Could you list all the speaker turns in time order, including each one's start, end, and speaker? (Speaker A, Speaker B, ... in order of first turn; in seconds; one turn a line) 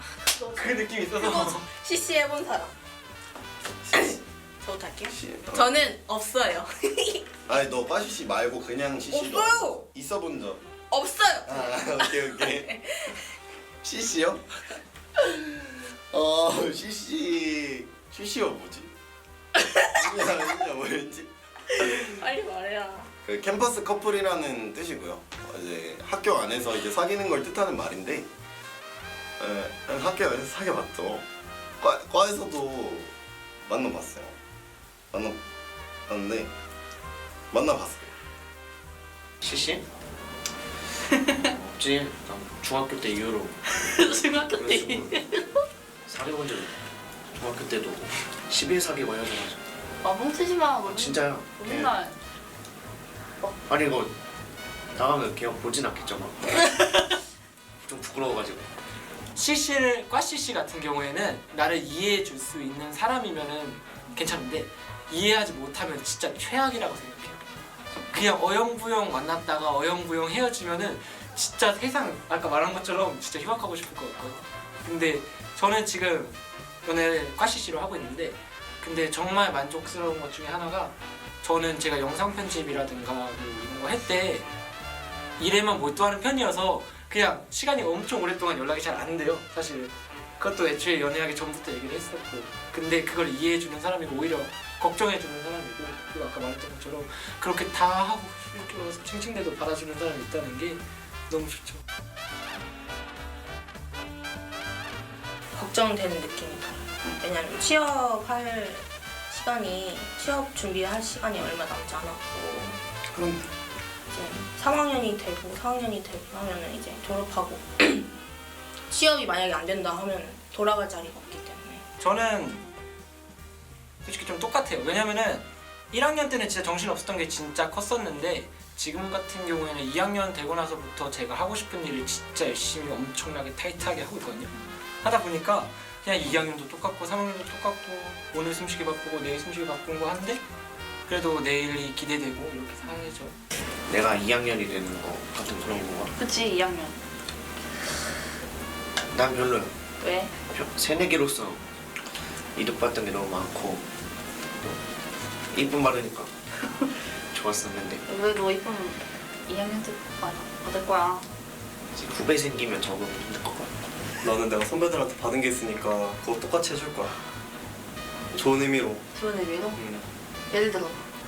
Speaker A: 0.3-0.7
Speaker B: 0.6-1.6
Speaker C: 1.2-2.7
Speaker C: 3.9-7.3
Speaker D: 5.1-5.7
Speaker D: 7.5-10.6
Speaker C: 9.1-9.8
Speaker C: 10.9-13.3
Speaker D: 11.5-12.7
Speaker D: 13.8-14.6
Speaker D: 16.1-18.9
Speaker D: 19.9-21.9
Speaker C: 21.9-23.1
Speaker D: 23.2-28.3
Speaker D: 29.4-31.2
Speaker D: 31.8-33.1
Speaker D: 33.7-34.4
Speaker D: 35.1-35.4
Speaker D: 36.1-36.5
Speaker D: 37.5-38.1
Speaker E: 39.4-39.9
Speaker E: 41.3-45.1
Speaker A: 43.7-45.6
Speaker E: 46.1-46.7
Speaker E: 47.3-49.6
Speaker A: 50.0-52.2
Speaker E: 50.9-51.9
Speaker E: 53.7-54.1
Speaker E: 54.9-56.7
Speaker E: 57.8-58.7
Speaker B: 59.4-67.4
Speaker B: 68.1-84.5
Speaker B: 85.4-101.8
Speaker C: 105.5-112.8
Speaker C: 114.1-118.1
Speaker C: 118.9-121.8
Speaker B: 122.0-122.7
Speaker B: 124.0-140.4
Speaker B: 141.1-143.4
Speaker E: 143.9-146.1
Speaker A: 146.2-147.0
Speaker E: 149.1-149.8
Speaker A: 150.0-150.5
Speaker E: 150.4-151.6
Speaker E: 152.6-153.9
Speaker E: 155.5-156.3
Speaker E: 157.1-158.0
Speaker A: 158.1-161.3
Speaker E: 161.9-163.9
Speaker F: 164.2-167.2
Speaker F: 168.3-169.0
Speaker A: 169.2-169.8
Speaker F: 169.8-170.1
Speaker A: 170.5-171.0